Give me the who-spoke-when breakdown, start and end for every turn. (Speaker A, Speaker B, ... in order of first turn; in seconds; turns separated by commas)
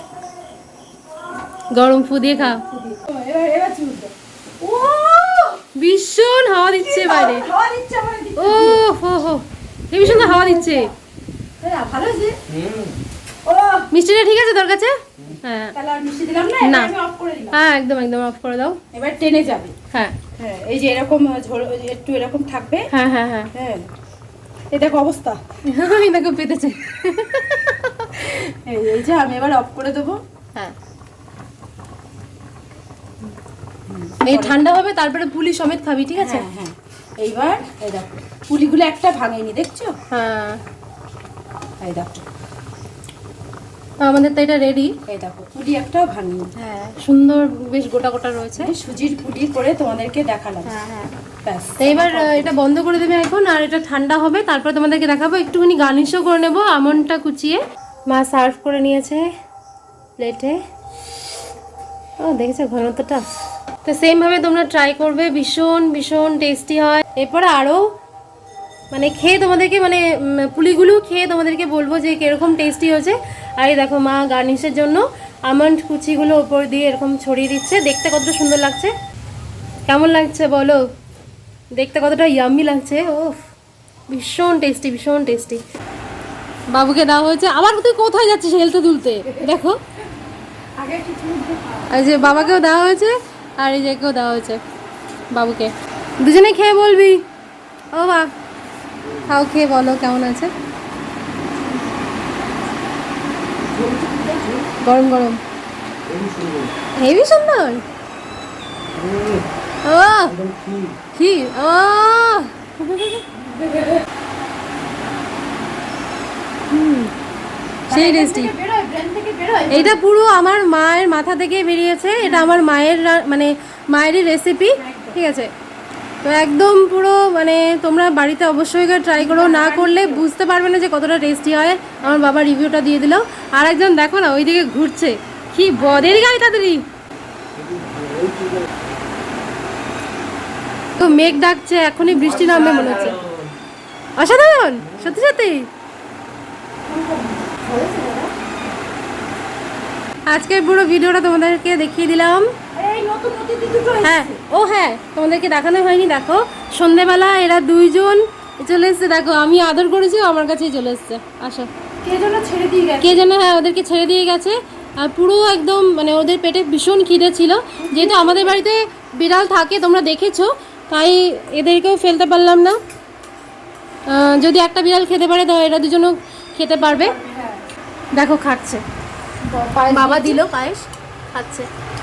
Speaker A: 1.7-2.6, Speaker B: 2.4-5.6, Speaker A: 5.7-7.5, Speaker B: 6.8-8.8, Speaker A: 8.3-10.9, Speaker B: 10.0-10.9, Speaker B: 11.6-12.4, Speaker C: 12.5-13.0, Speaker B: 13.4-13.9, Speaker A: 13.9-15.8, Speaker B: 15.7-17.6, Speaker A: 16.6-16.9, Speaker A: 17.5-18.8, Speaker B: 18.9-19.7, Speaker A: 19.9-20.1, Speaker B: 20.4-22.9, Speaker A: 22.9-23.5, Speaker B: 23.5-23.9, Speaker B: 24.7-25.4, Speaker A: 25.7-28.5, Speaker B: 28.6-30.2, Speaker B: 33.9-34.6, Speaker A: 34.2-36.5, Speaker B: 36.2-40.0, Speaker A: 40.1-40.6, Speaker B: 41.8-42.2, Speaker A: 44.0-45.0, Speaker B: 45.0-46.5, Speaker A: 46.6-48.7, Speaker B: 48.6-50.8, Speaker A: 50.6-51.1, Speaker B: 51.4-52.6, Speaker A: 51.8-59.2, Speaker A: 60.2-60.6, Speaker A: 62.2-63.3, Speaker A: 63.8-67.9, Speaker A: 68.9-78.9, Speaker A: 79.9-80.8, Speaker A: 81.7-83.4, Speaker A: 84.1-85.6, Speaker A: 86.7-89.8, Speaker B: 89.3-89.5, Speaker B: 90.8-92.7, Speaker A: 91.9-94.6, Speaker A: 95.3-97.2, Speaker A: 97.9-98.3, Speaker A: 99.3-100.5, Speaker B: 103.7-104.6, Speaker C: 103.9-104.4, Speaker A: 104.8-105.4, Speaker C: 106.0-106.7, Speaker A: 107.0-107.8, Speaker C: 108.9-109.5, Speaker A: 109.8-110.3, Speaker C: 110.3-111.0, Speaker A: 111.1-113.2, Speaker B: 113.5-114.0, Speaker A: 116.7-117.1, Speaker A: 117.9-118.5, Speaker B: 117.9-120.0, Speaker A: 119.7-125.5, Speaker B: 122.2-122.6, Speaker B: 124.8-125.2, Speaker A: 126.2-136.8, Speaker B: 129.2-130.3, Speaker B: 132.0-132.3, Speaker B: 135.8-136.3, Speaker C: 137.5-138.7, Speaker A: 141.0-143.2, Speaker C: 142.1-143.5, Speaker B: 142.5-143.2, Speaker A: 144.2-145.7, Speaker C: 144.8-145.2, Speaker B: 146.8-148.3, Speaker A: 150.3-152.5, Speaker B: 152.8-154.4, Speaker A: 154.0-161.7, Speaker B: 162.0-163.3, Speaker A: 163.0-172.8, Speaker B: 167.8-168.6, Speaker A: 174.1-177.2, Speaker B: 176.8-177.6, Speaker A: 178.1-178.8, Speaker B: 179.4-180.4, Speaker A: 179.9-181.7